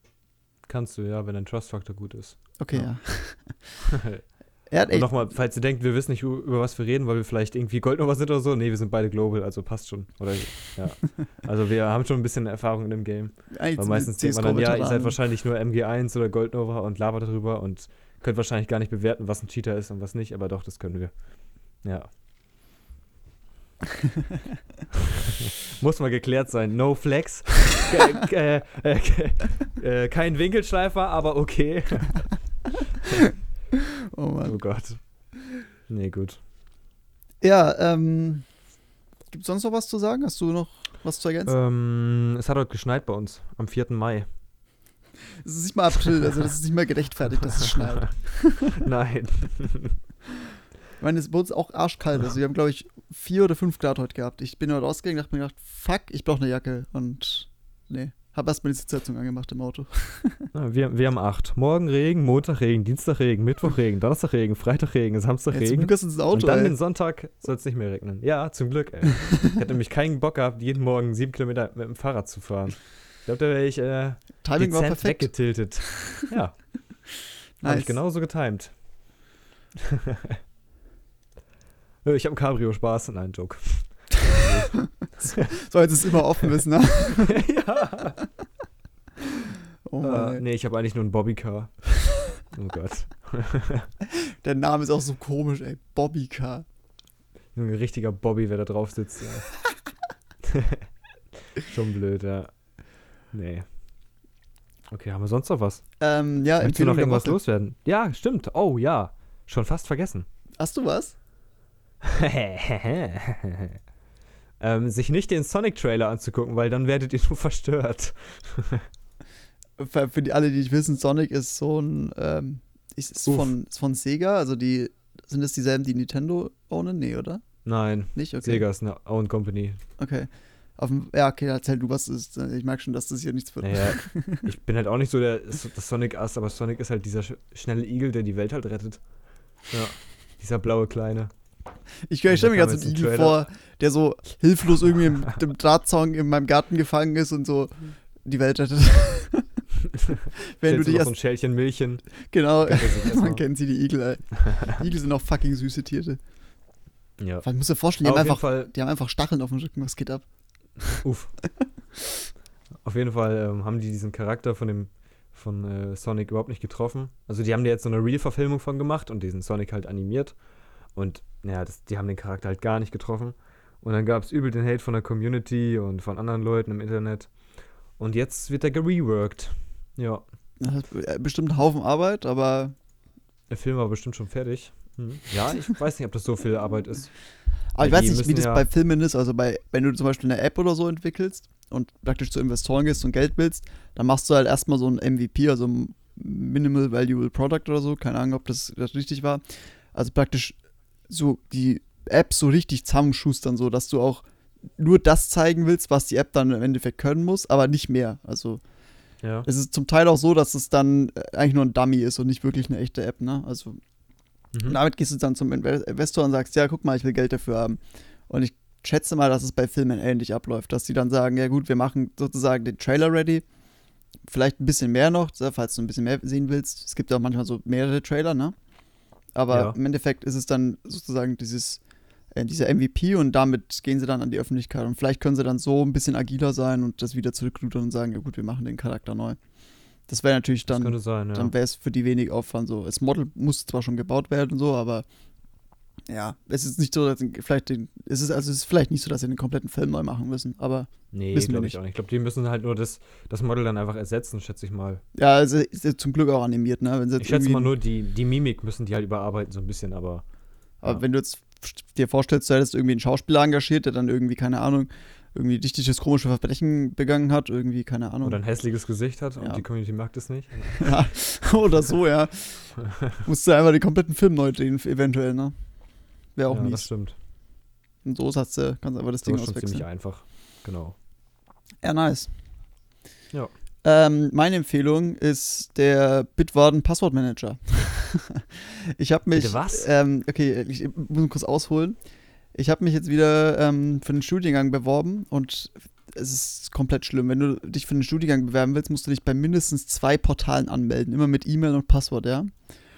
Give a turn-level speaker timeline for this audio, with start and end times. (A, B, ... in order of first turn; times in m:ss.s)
0:00.7-0:03.0 A
0:02.6-0:03.7 B
0:03.9-0:22.1 A
0:04.7-0:05.2 B
0:13.5-0:15.2 B
0:25.4-0:32.4 A
0:34.0-0:34.6 B
0:34.4-0:35.0 A
0:35.9-0:36.4 A
0:37.4-0:38.5 B
0:39.3-0:41.6 B
0:41.5-0:44.3 A
0:45.4-0:48.8 B
0:48.8-0:50.0 A
0:51.0-1:00.5 B
1:00.5-1:17.1 A
1:05.5-1:06.8 B
1:14.4-1:15.9 B
1:17.6-1:18.0 B
1:17.6-1:18.8 A
1:22.0-1:25.5 A
1:25.2-1:27.4 B
1:27.3-1:28.2 A
1:29.8-1:30.4 B
1:30.0-1:33.9 A
1:34.4-1:36.6 B
1:37.6-1:39.6 A
1:40.5-1:40.8 A
1:41.5-1:42.6 A
1:43.3-1:43.7 A
1:44.9-1:45.9 A
1:46.0-1:47.4 B
1:46.6-1:50.3 A
1:50.6-1:51.2 B
1:52.0-1:53.8 A
1:54.6-1:58.8 A
1:59.8-2:07.5 B
2:03.3-2:03.5 A
2:07.6-2:09.8 A
2:08.1-2:08.6 B
2:10.0-2:14.5 B
2:13.6-2:21.3 A
2:22.1-2:29.6 B
2:22.3-2:23.4 A
2:30.5-2:31.1 B
2:30.6-2:33.4 A
2:32.2-2:36.2 B
2:34.4-2:34.8 A
2:37.2-2:37.5 A
2:37.4-2:40.2 B
2:38.0-2:38.7 A
2:41.0-2:41.3 A
2:42.8-2:50.4 A
2:50.9-3:00.2 A
3:00.6-3:02.8 B
3:03.5-3:08.7 A
3:07.7-3:20.6 B
3:21.1-3:24.2 B
3:24.8-3:28.6 B
3:29.2-3:29.5 A
3:29.4-3:33.8 B
3:34.5-3:34.8 A
3:34.6-3:43.4 B
3:44.3-3:48.6 B
3:49.4-3:51.8 B
3:49.5-3:49.8 A
3:52.3-3:59.4 B
4:00.1-4:05.1 B
4:00.7-4:01.5 A
4:06.1-4:11.8 B
4:11.1-4:15.0 A
4:15.1-4:17.7 B
4:17.2-4:20.2 A
4:20.8-4:28.4 B
4:28.2-4:30.9 A
4:29.4-4:29.6 B
4:30.8-4:35.5 B
4:36.4-4:36.9 B
4:36.5-4:37.2 A
4:38.0-4:39.9 B
4:39.2-4:41.0 A
4:41.8-4:42.5 B
4:43.8-4:52.0 B
4:49.3-4:49.9 A
4:52.5-5:02.5 B